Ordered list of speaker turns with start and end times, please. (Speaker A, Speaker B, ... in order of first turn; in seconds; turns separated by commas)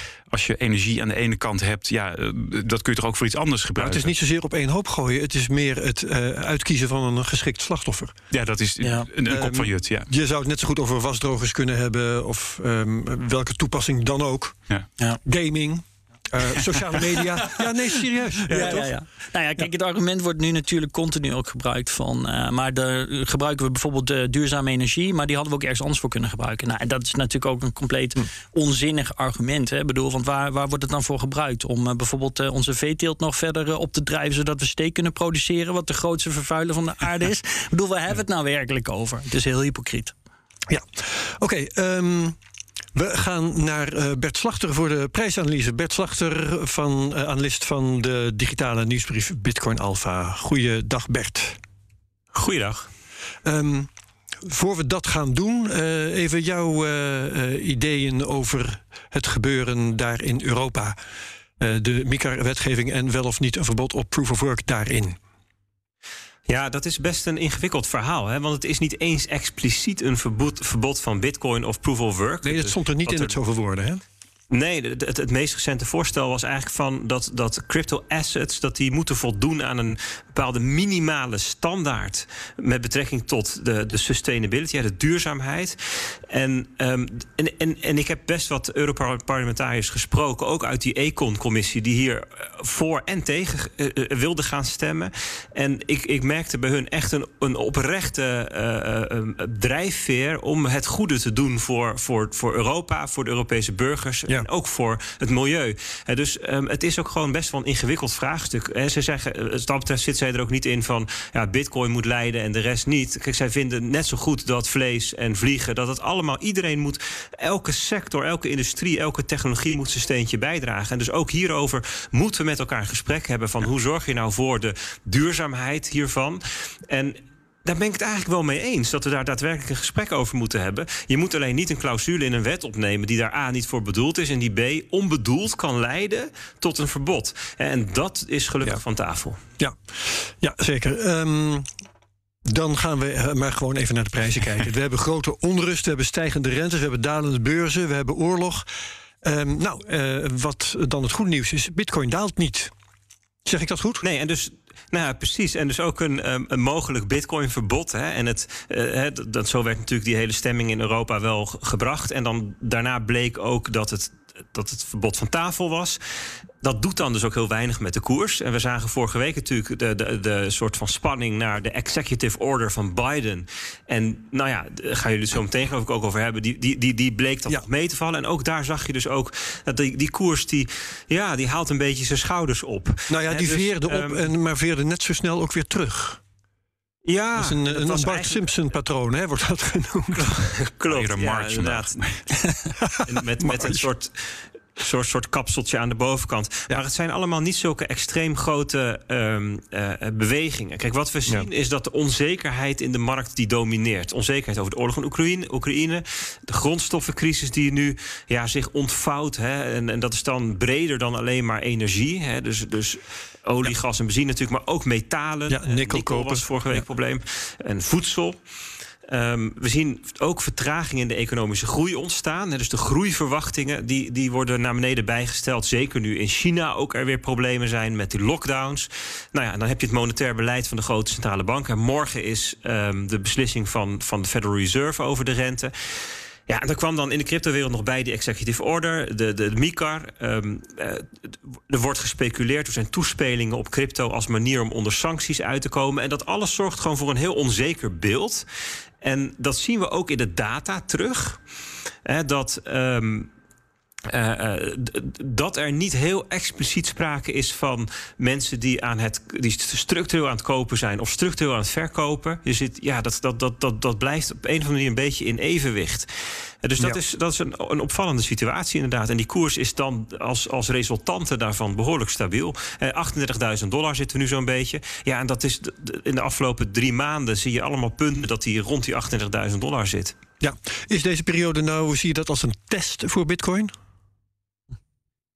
Speaker A: 0.3-4.1, Speaker B: 3.8-8.2, Speaker A: 8.3-10.1, Speaker C: 8.8-9.1, Speaker B: 9.2-14.6, Speaker B: 15.2-18.9, Speaker A: 18.5-18.8, Speaker C: 18.5-40.1, Speaker B: 40.7-42.4, Speaker B: 42.9-51.6, Speaker D: 52.3-52.9, Speaker B: 53.4-53.9, Speaker B: 54.4-61.0, Speaker B: 61.6-65.2, Speaker D: 66.5-73.3, Speaker B: 72.4-74.0, Speaker D: 74.5-139.4, Speaker B: 139.6-141.7, Speaker B: 142.4-148.7, Speaker B: 149.2-152.7, Speaker B: 153.4-154.0, Speaker D: 154.0-166.0, Speaker D: 166.6-184.2, Speaker B: 183.1-186.2, Speaker D: 187.1-188.5, Speaker B: 187.3-190.5, Speaker D: 190.2-192.0, Speaker A: 190.9-192.2, Speaker B: 192.8-193.8, Speaker D: 193.0-218.4, Speaker B: 215.5-216.8, Speaker D: 219.1-235.7, Speaker D: 236.5-241.1, Speaker D: 241.7-248.4, Speaker D: 249.0-251.4, Speaker D: 252.1-253.3, Speaker D: 254.1-266.1, Speaker D: 266.6-280.2, Speaker B: 280.4-283.7